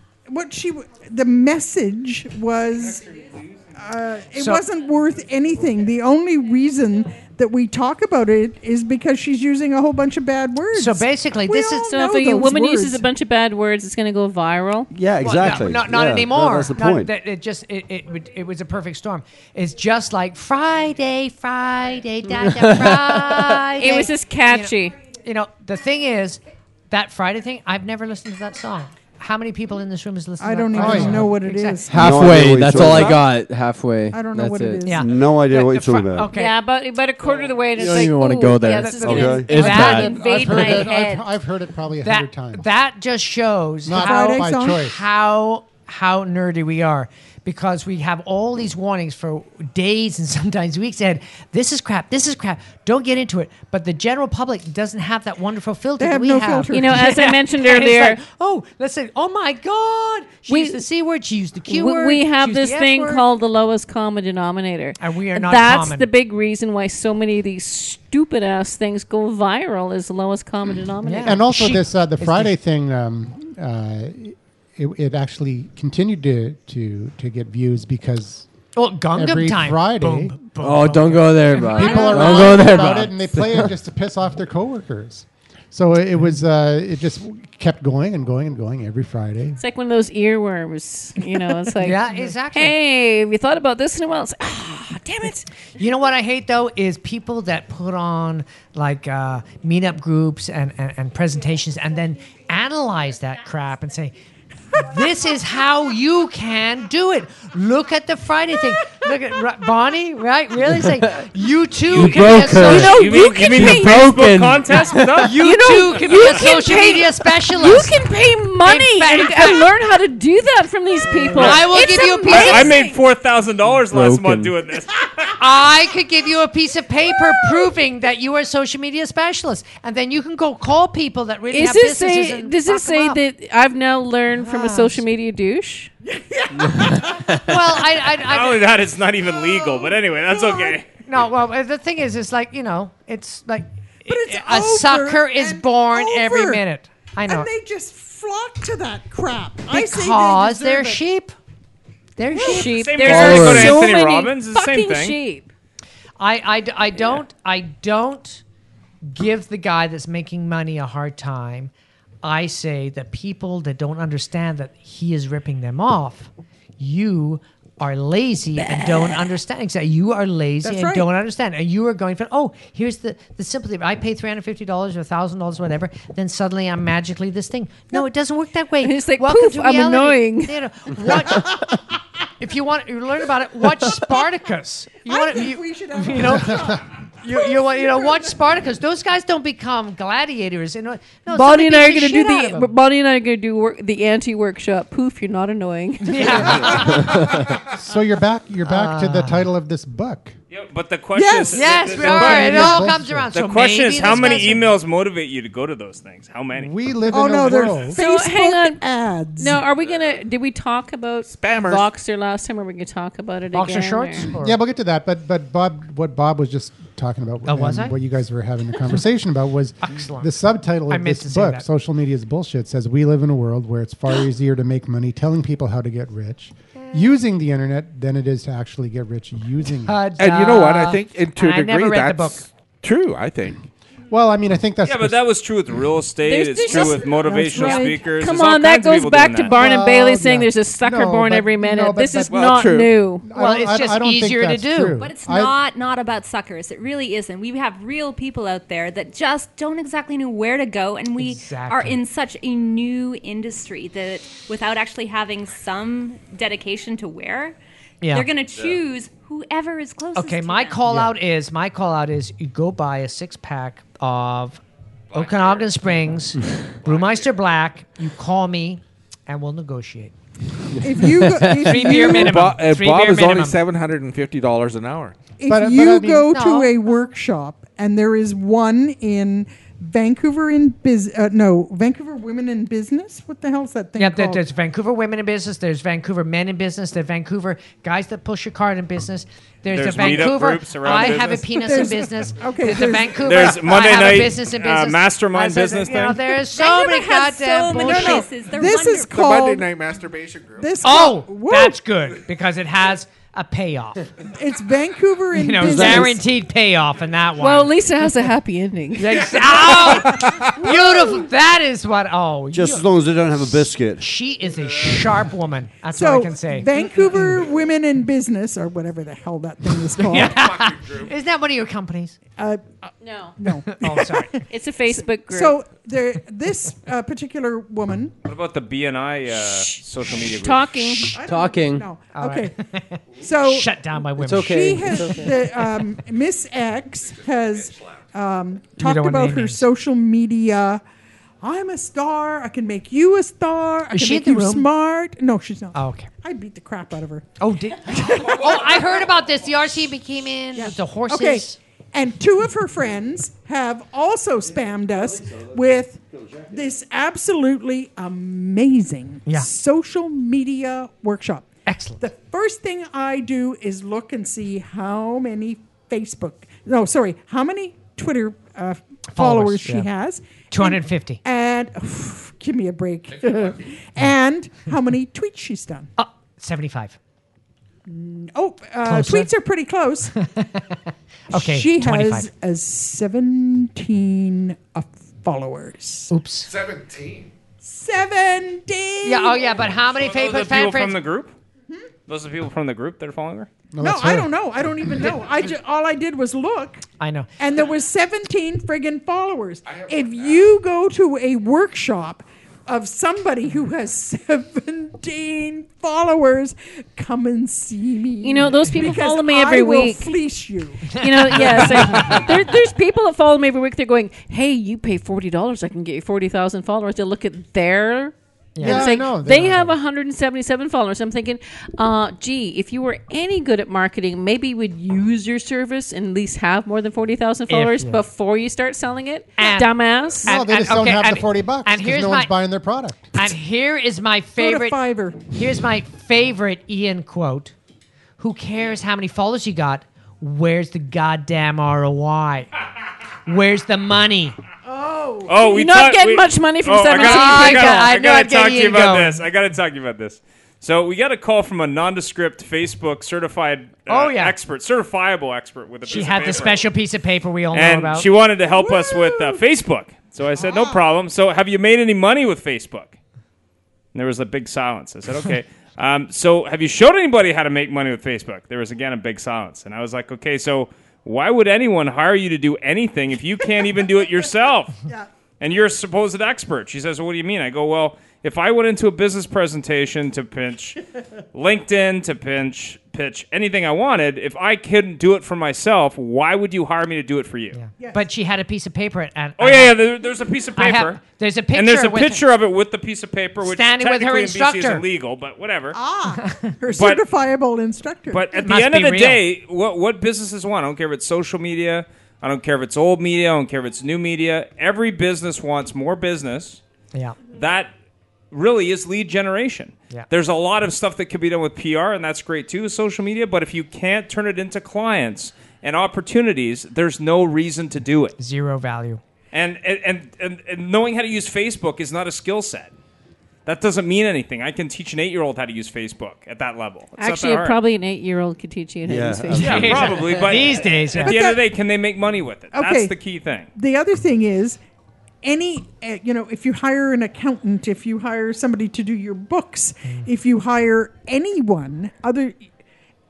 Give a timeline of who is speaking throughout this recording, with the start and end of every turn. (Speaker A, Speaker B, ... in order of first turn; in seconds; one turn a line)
Speaker A: 0.3-13.1
Speaker B: 4.3-4.6
Speaker B: 10.7-11.9
Speaker C: 11.8-14.9
Speaker D: 14.9-17.1
Speaker B: 15.2-32.0
Speaker E: 22.4-23.6
Speaker C: 23.8-24.9
Speaker A: 30.4-32.4
Speaker F: 30.7-31.3
Speaker E: 31.9-34.9
Speaker D: 31.9-33.2
Speaker A: 34.1-35.2
Speaker B: 34.8-36.5
Speaker D: 35.0-36.3
Speaker C: 36.3-41.2
Speaker E: 37.8-40.2
Speaker B: 38.8-40.6
Speaker D: 39.0-39.5
Speaker F: 39.5-42.7
Speaker B: 42.0-63.2
Speaker F: 43.9-45.0
Speaker A: 43.9-44.9
Speaker A: 56.0-57.1
Speaker C: 56.7-58.2
Speaker C: 60.5-60.8
Speaker C: 61.7-71.4
Speaker B: 65.0-66.1
Speaker B: 71.0-72.5
Speaker F: 71.2-78.5
Speaker B: 78.7-82.5
Speaker F: 79.1-80.3
Speaker E: 80.6-83.7
Speaker F: 81.7-89.6
Speaker C: 89.6-95.5
Speaker B: 91.8-92.8
Speaker B: 95.8-104.1
Speaker B: 104.8-113.0
Speaker E: 111.9-115.1
Speaker G: 112.0-115.4
Speaker C: 112.6-114.1
Speaker C: 114.7-123.0
Speaker B: 115.2-118.0
Speaker B: 118.6-119.7
Speaker B: 121.3-122.7
Speaker G: 122.3-125.3
Speaker E: 123.9-124.5
Speaker B: 125.4-133.2
Speaker C: 131.5-135.9
Speaker B: 134.3-135.0
Speaker A: 136.0-137.8
Speaker B: 137.0-138.7
Speaker G: 138.2-140.9
Speaker A: 139.2-140.8
Speaker B: 141.0-147.5
Speaker A: 144.1-146.6
Speaker A: 147.2-151.0
Speaker B: 149.7-151.3
Speaker B: 152.2-153.1
Speaker C: 152.3-155.5
Speaker A: 152.3-152.7
Speaker G: 152.6-155.2
Speaker E: 153.1-153.8
Speaker B: 156.2-158.4
Speaker B: 159.1-161.7
Speaker B: 162.2-181.8
Speaker A: 170.6-171.1
Speaker C: 178.8-180.5
Speaker B: 182.4-192.7
Speaker A: 185.1-188.3
Speaker C: 191.3-196.9
Speaker B: 196.0-197.3
Speaker F: 196.8-200.3
Speaker B: 198.6-199.5
Speaker G: 200.5-206.7
Speaker A: 201.1-202.6
Speaker B: 201.5-204.7
Speaker F: 202.1-203.3
Speaker F: 206.5-208.0
Speaker A: 207.1-209.6
Speaker C: 207.9-208.8
Speaker C: 209.4-214.3
Speaker H: 209.8-210.1
Speaker H: 211.2-211.9
Speaker B: 213.5-214.6
Speaker F: 214.4-230.1
Speaker B: 217.4-217.9
Speaker B: 219.8-220.3
Speaker B: 220.9-221.7
Speaker B: 229.8-232.5
Speaker H: 230.2-233.7
Speaker F: 234.1-235.2
Speaker G: 234.8-239.6
Speaker C: 236.2-243.2
Speaker A: 236.7-238.1
Speaker F: 239.5-242.7
Speaker H: 242.3-242.9
Speaker F: 243.2-245.5
Speaker B: 243.3-245.0
Speaker I: 245.0-257.6
Speaker B: 251.2-252.0
Speaker B: 258.0-258.3
Speaker I: 258.1-260.8
Speaker H: 258.5-258.8
Speaker B: 260.1-264.6
Speaker H: 265.1-265.6
Speaker B: 265.1-270.1
Speaker H: 266.8-267.3
Speaker A: 270.8-272.4
Speaker E: 270.8-271.7
Speaker B: 271.6-273.6
Speaker H: 272.2-275.1
Speaker A: 275.4-284.4
Speaker F: 275.5-276.3
Speaker B: 276.2-276.7
Speaker B: 283.9-298.3
Speaker G: 289.7-291.8
Speaker A: 290.8-293.5
Speaker G: 293.2-296.2
Speaker I: 296.4-299.2
Speaker A: 297.8-299.7
Speaker H: 299.1-300.7
Speaker A: 300.6-301.8
Speaker B: 300.8-304.1
Speaker A: 304.3-306.2
Speaker B: 305.3-307.7
Speaker C: 307.4-309.7
Speaker B: 308.9-312.9
Speaker A: 310.3-311.2
Speaker D: 312.5-314.1
Speaker B: 313.4-317.4
Speaker A: 315.9-320.5
Speaker B: 320.0-322.2
Speaker H: 320.4-321.1
Speaker A: 322.4-328.1
Speaker C: 323.0-323.4
Speaker B: 323.4-324.4
Speaker C: 324.5-325.6
Speaker G: 328.2-330.9
Speaker C: 330.1-331.2
Speaker A: 331.0-332.6
Speaker E: 331.2-331.9
Speaker B: 332.1-335.3
Speaker A: 333.2-333.7
Speaker E: 334.2-335.5
Speaker A: 334.4-340.8
Speaker B: 338.8-339.6
Speaker A: 341.4-347.3
Speaker B: 343.9-344.7
Speaker B: 345.7-346.1
Speaker B: 347.4-351.6
Speaker A: 347.9-348.6
Speaker A: 350.5-361.5
Speaker B: 361.7-362.0
Speaker A: 362.0-375.9
Speaker B: 369.1-369.9
Speaker B: 370.5-371.2
Speaker H: 373.1-373.6
Speaker B: 376.0-377.0
Speaker A: 377.9-380.1
Speaker B: 378.8-379.3
Speaker B: 380.1-382.3
Speaker A: 381.3-386.1
Speaker B: 386.1-386.5
Speaker H: 386.5-387.3
Speaker A: 387.6-389.5
Speaker B: 389.0-391.0
Speaker G: 389.9-391.3
Speaker G: 392.0-393.5
Speaker F: 393.7-394.9
Speaker A: 393.8-396.9
Speaker B: 397.0-397.3
Speaker A: 397.4-412.3
Speaker H: 399.6-400.5
Speaker C: 408.2-410.1
Speaker B: 410.9-412.2
Speaker C: 410.9-430.3
Speaker B: 418.6-418.9
Speaker F: 418.6-419.8
Speaker B: 427.5-428.0
Speaker B: 429.4-432.3
Speaker F: 430.2-433.1
Speaker B: 433.1-437.5
Speaker A: 434.4-435.2
Speaker B: 438.2-442.5
Speaker B: 443.2-444.4
Speaker A: 444.6-445.3
Speaker G: 445.3-456.7
Speaker C: 445.3-447.9
Speaker B: 446.9-449.2
Speaker B: 453.9-454.4
Speaker B: 455.9-458.1
Speaker G: 457.5-462.9
Speaker A: 458.5-459.4
Speaker A: 460.4-460.8
Speaker G: 463.9-474.8
Speaker G: 475.4-480.8
Speaker G: 481.3-487.6
Speaker B: 487.5-489.8
Speaker A: 487.8-488.0
Speaker G: 489.4-495.8
Speaker B: 490.6-492.2
Speaker B: 493.4-494.8
Speaker A: 495.7-498.3
Speaker B: 496.2-496.5
Speaker G: 496.7-497.0
Speaker G: 498.1-506.6
Speaker B: 498.4-499.2
Speaker G: 507.3-507.7
Speaker G: 508.3-518.1
Speaker B: 518.2-519.0
Speaker G: 519.3-522.7
Speaker G: 523.5-527.6
Speaker C: 527.0-529.9
Speaker D: 528.8-530.0
Speaker G: 529.3-533.5
Speaker B: 529.3-531.2
Speaker A: 531.0-531.4
Speaker A: 532.5-532.9
Speaker A: 533.5-534.6
Speaker A: 535.2-542.4